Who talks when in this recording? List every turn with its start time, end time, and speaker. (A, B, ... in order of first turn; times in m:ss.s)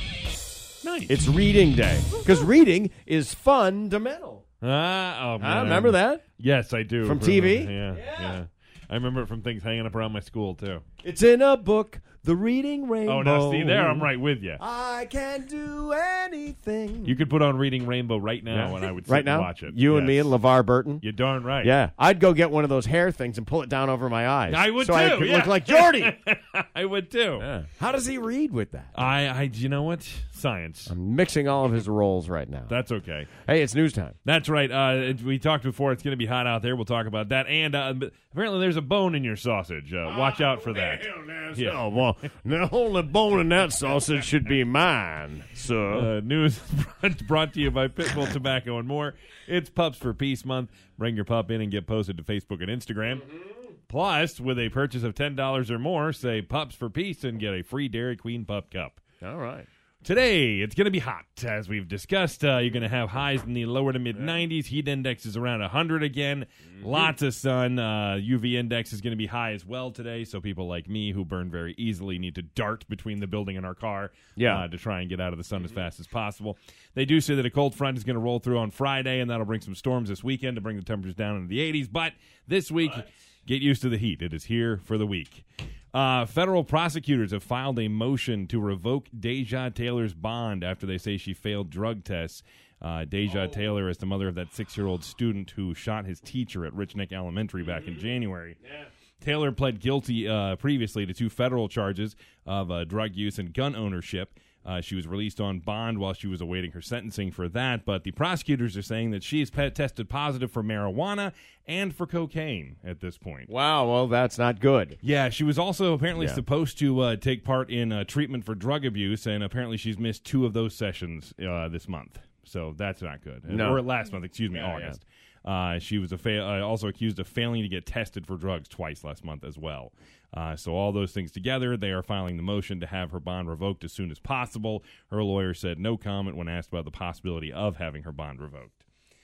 0:00.8-0:01.2 A
0:01.1-0:04.4 B
0:04.6-0:10.8 A
0:05.4-0:06.2 B
0:07.0-0:08.4 B
0:11.0-0:17.2 B
0:13.1-0:14.6 A
0:17.0-0:20.3 A
0:18.5-0:21.0 B
0:21.0-0:21.8 A
0:21.6-0:26.2 B
0:24.5-0:27.5 A
0:27.4-0:29.1 B
0:28.9-0:30.9 A
0:30.9-0:32.7 B
0:32.7-0:33.3 A
0:33.4-0:34.2 B
0:34.2-0:41.8 A
0:40.1-0:46.1 B
0:45.9-0:53.3 A
0:53.9-0:59.0 A
0:59.2-0:59.7 B
1:00.0-1:38.6 A
1:14.4-1:14.6 B
1:33.3-1:33.7 B
1:37.6-1:38.0 B
1:39.2-1:53.5 A
1:53.5-1:55.0 B
1:55.0-2:18.8 A
1:56.2-1:56.4 B
2:03.5-2:03.8 B
2:04.5-2:05.0 B